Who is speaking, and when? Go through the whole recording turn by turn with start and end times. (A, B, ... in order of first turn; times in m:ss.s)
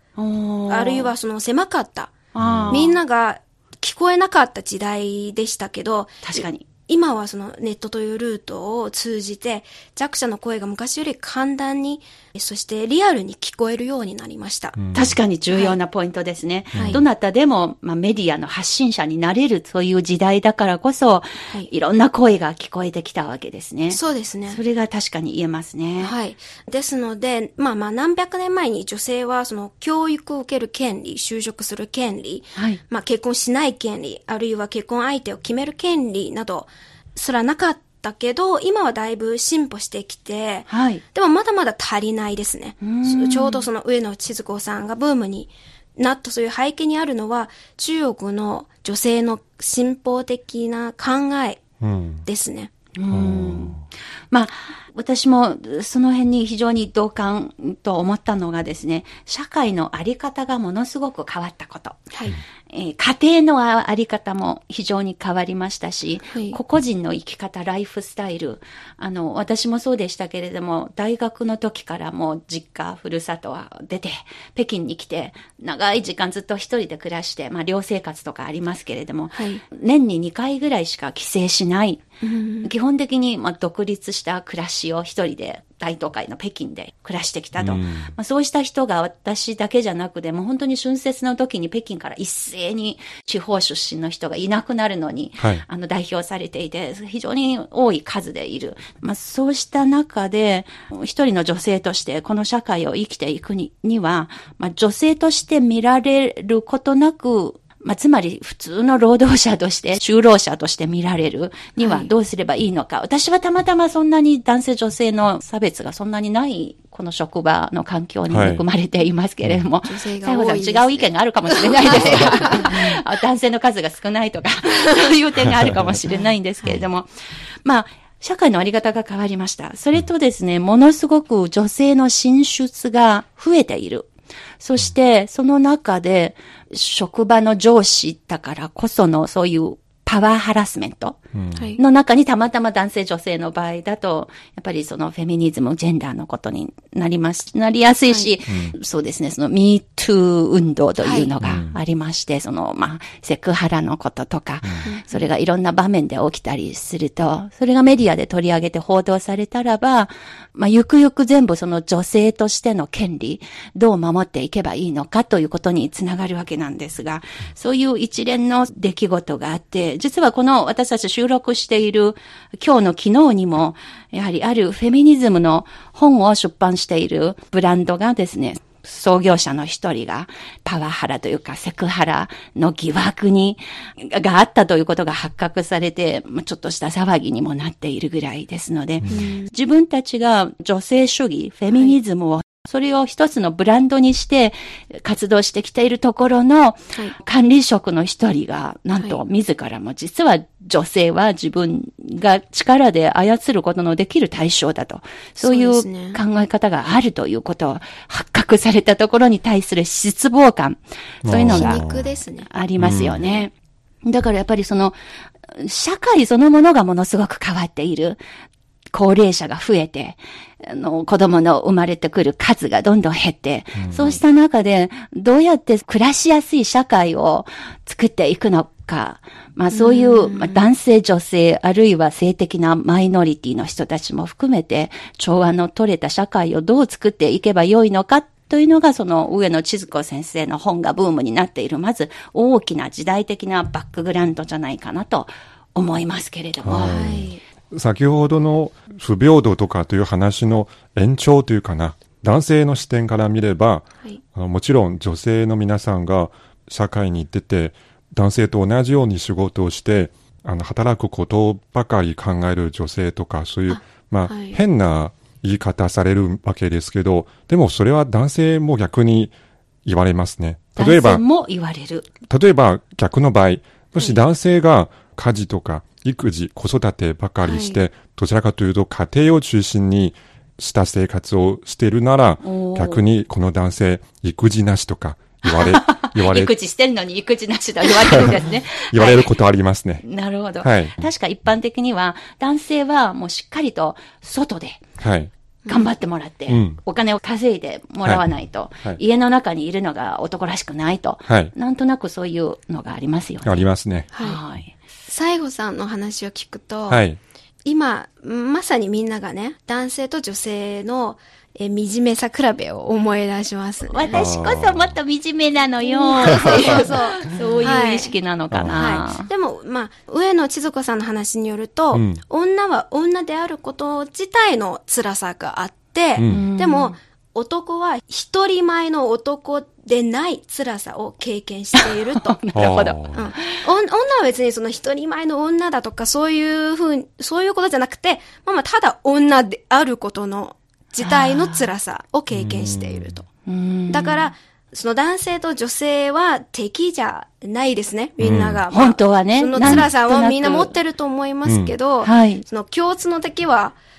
0:00.2-0:01.1 A
0:00.7-0:02.1 B
0:02.3-0:03.0 A
0:02.4-0:02.8 C
0:02.7-0:14.8 B
0:06.2-0:06.7 A
0:14.8-0:15.2 C
0:14.9-0:26.1 A
0:15.5-0:15.8 B
0:16.7-0:17.0 C
0:16.7-0:17.0 B
0:23.9-0:24.6 B
0:26.0-0:51.6 B
0:40.7-0:41.0 A
0:42.8-0:43.7 A
0:51.8-0:52.2 C
0:52.2-0:52.7 B
0:53.0-1:02.1 A
0:53.1-0:53.8 C
1:02.1-1:02.4 B
1:02.7-1:22.0 A
1:06.3-1:06.6 B
1:19.3-1:19.6 B
1:22.2-1:22.7 B
1:22.6-2:07.1 A
1:27.6-1:28.1 C
1:35.4-1:35.6 C
1:51.8-1:52.1 B
1:58.3-1:58.6 C
1:59.8-2:03.0 B
2:07.6-2:21.2 A
2:21.3-2:21.6 C
2:21.6-2:21.8 B
2:21.8-3:31.8 A
2:28.5-2:28.7 C
2:31.0-2:31.3 B
2:31.4-2:31.8 C
2:34.8-2:35.3 B
3:09.1-3:09.5 B
3:25.4-3:26.2 B
3:31.2-3:32.1 C
3:31.4-3:32.5 B
3:32.5-3:33.5 A
3:32.8-3:33.2 C
3:34.0-3:38.2 A
3:38.9-4:07.0 A
3:43.8-3:44.2 C
3:49.7-3:50.7 B
4:06.6-4:29.3 C
4:06.8-4:07.4 B
4:23.7-4:24.6 B
4:29.8-4:31.2 C
4:30.8-4:32.1 A
4:32.3-4:46.5 C
4:37.4-4:37.8 B
4:42.4-4:43.0 A
4:45.4-4:49.3 A
4:48.9-4:50.0 C
4:50.0-4:54.8 A
4:50.6-4:51.0 C
4:55.0-4:55.3 C
4:55.6-4:55.9 B
4:55.7-5:04.7 A
4:56.5-4:56.8 C
5:01.3-5:01.5 C
5:03.4-5:04.1 C
5:04.1-5:04.4 B
5:05.1-5:07.0 B
5:06.9-5:07.2 C
5:07.6-5:14.1 B
5:13.9-5:19.3 A
5:14.1-5:14.9 C
5:15.8-5:18.1 B
5:18.5-5:18.9 C
5:18.7-5:32.4 B
5:21.9-5:22.2 C
5:26.2-5:26.4 C
5:26.3-5:27.0 A
5:31.8-5:33.6 A
5:32.5-5:33.3 C
5:33.1-5:43.3 B
5:41.0-5:41.7 A
5:42.3-5:43.2 C
5:43.4-5:44.3 A
5:43.9-5:53.8 B
5:48.2-5:48.6 C
5:48.7-5:50.8 A
5:49.6-5:49.9 C
5:51.4-5:51.7 C
5:52.0-5:52.4 A